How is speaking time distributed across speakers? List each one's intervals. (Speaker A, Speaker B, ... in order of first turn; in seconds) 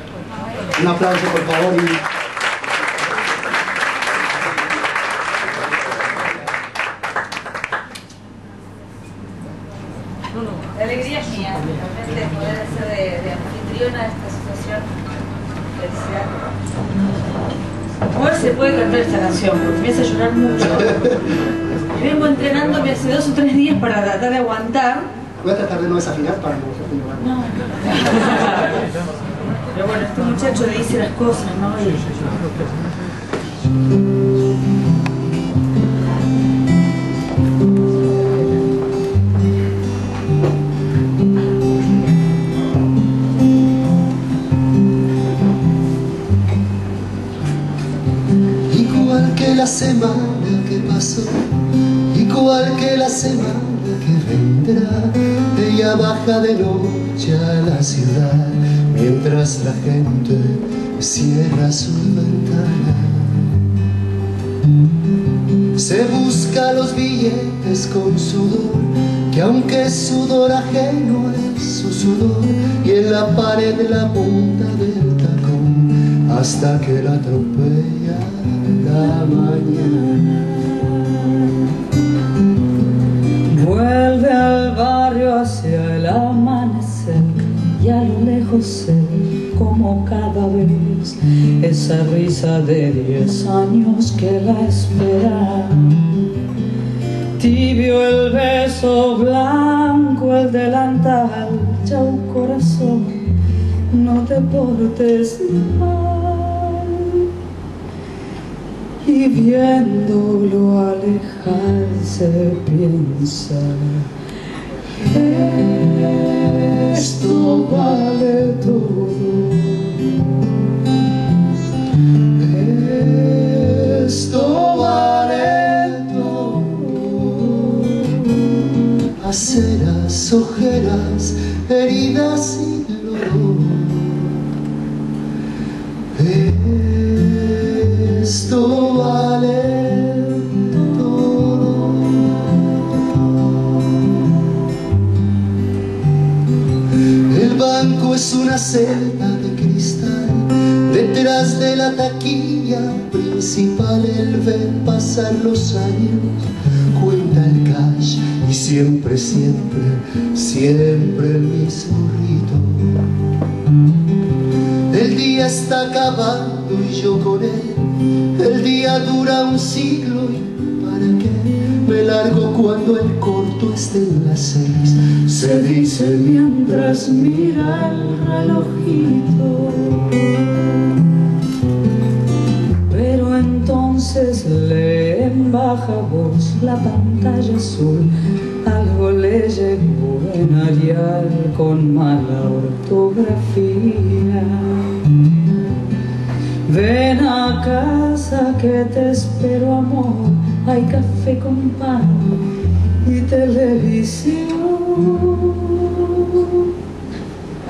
Speaker A: 0.7-2.0, 25.4-27.4, 48.7-63.6, 65.7-80.3, 116.9-117.7, 122.4-128.1, 129.0-134.5, 136.1-142.7, 147.2-163.2, 164.9-178.1
Speaker B: 10.7-14.9, 15.7-16.4, 18.1-21.2, 21.9-25.1, 27.2-28.8, 29.7-32.1
Speaker C: 80.4-81.5, 83.5-96.1, 97.4-103.4, 103.9-107.3, 109.0-114.1, 115.0-119.7, 175.3-180.6, 182.9-188.1, 188.6-194.9, 196.7-202.4, 203.0-206.7